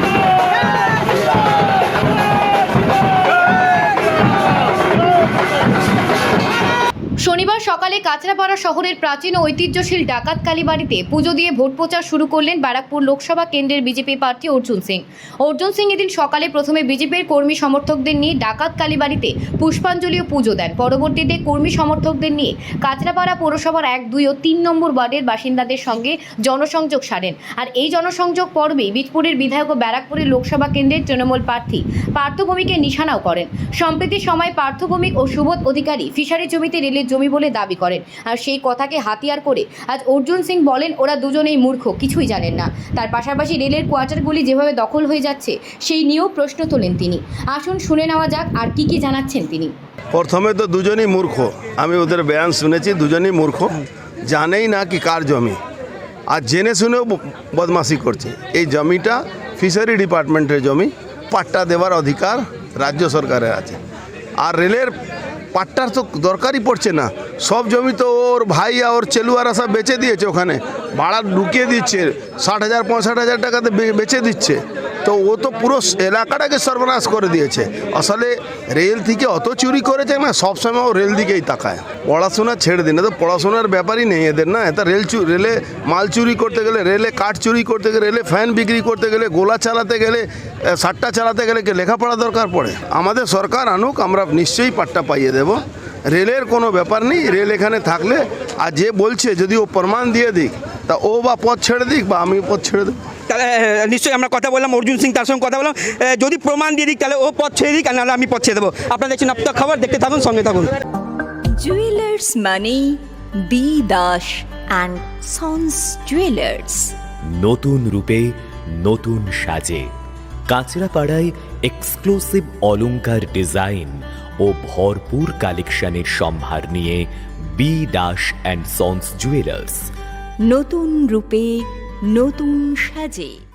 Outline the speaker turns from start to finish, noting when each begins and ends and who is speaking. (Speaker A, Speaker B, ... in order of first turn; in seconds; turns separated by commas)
Speaker A: 7.2-49.7, Speaker B: 50.1-55.6, Speaker B: 56.3-63.8, Speaker B: 64.4-64.9, Speaker B: 65.5-103.0, Speaker C: 103.3-110.7, Speaker D: 111.5-116.9, Speaker E: 117.2-119.9, Speaker E: 120.5-129.9, Speaker D: 130.4-133.4